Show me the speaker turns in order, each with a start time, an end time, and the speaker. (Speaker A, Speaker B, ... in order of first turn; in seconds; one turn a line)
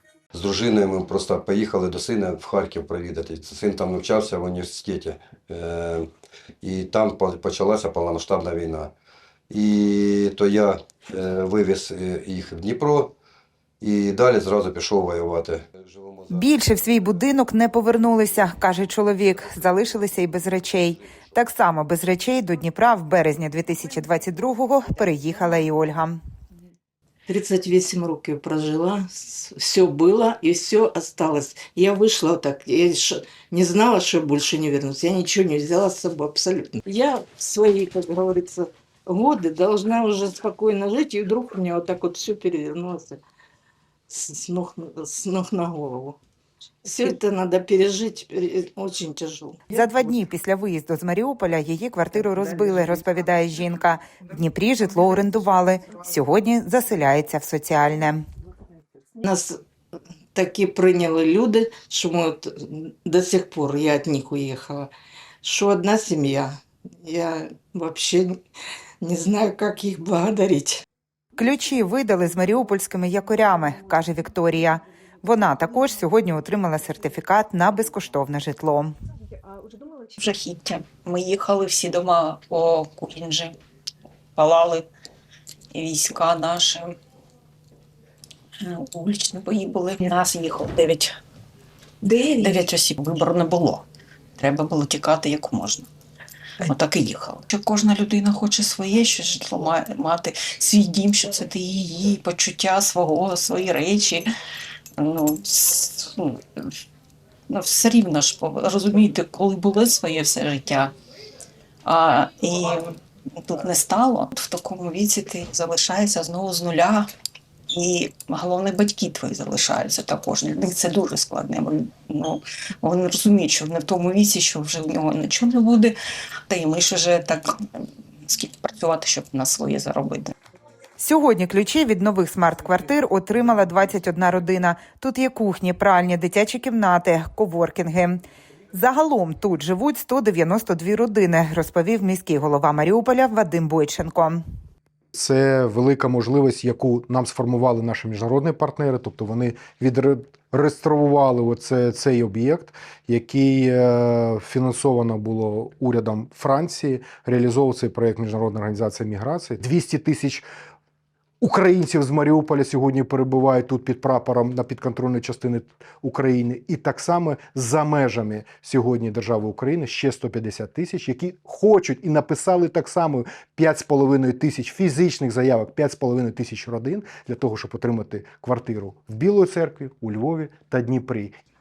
Speaker A: 0.3-6.1
Speaker A: 6.6-8.9
Speaker A: 9.5-13.1
Speaker A: 13.8-16.4
Speaker B: 16.3-26.2
Speaker C: 27.3-43.2
Speaker C: 44.1-46.2
Speaker C: 46.8-49.7
Speaker B: 49.7-58.2
Speaker C: 59.2-59.6
Speaker C: 60.3-64.9
Speaker C: 65.4-68.4
Speaker C: 69.0-70.8
Speaker B: 71.4-78.9
Speaker D: 80.2-83.6
Speaker D: 84.4-84.9
Speaker D: 85.7-87.0
Speaker D: 88.6-91.2
Speaker C: 92.0-92.7
Speaker D: 92.4-93.8
Speaker D: 94.4-95.9
Speaker D: 96.6-104.3
Speaker D: 105.0-106.7
Speaker D: 107.5-110.9
Speaker D: 111.8-117.1
Speaker D: 117.7-126.0
Speaker D: 126.5-130.3
Speaker B: 131.0-138.2
Speaker B: 138.7-144.4
Speaker E: 145.1-160.4
Speaker E: 161.4-181.4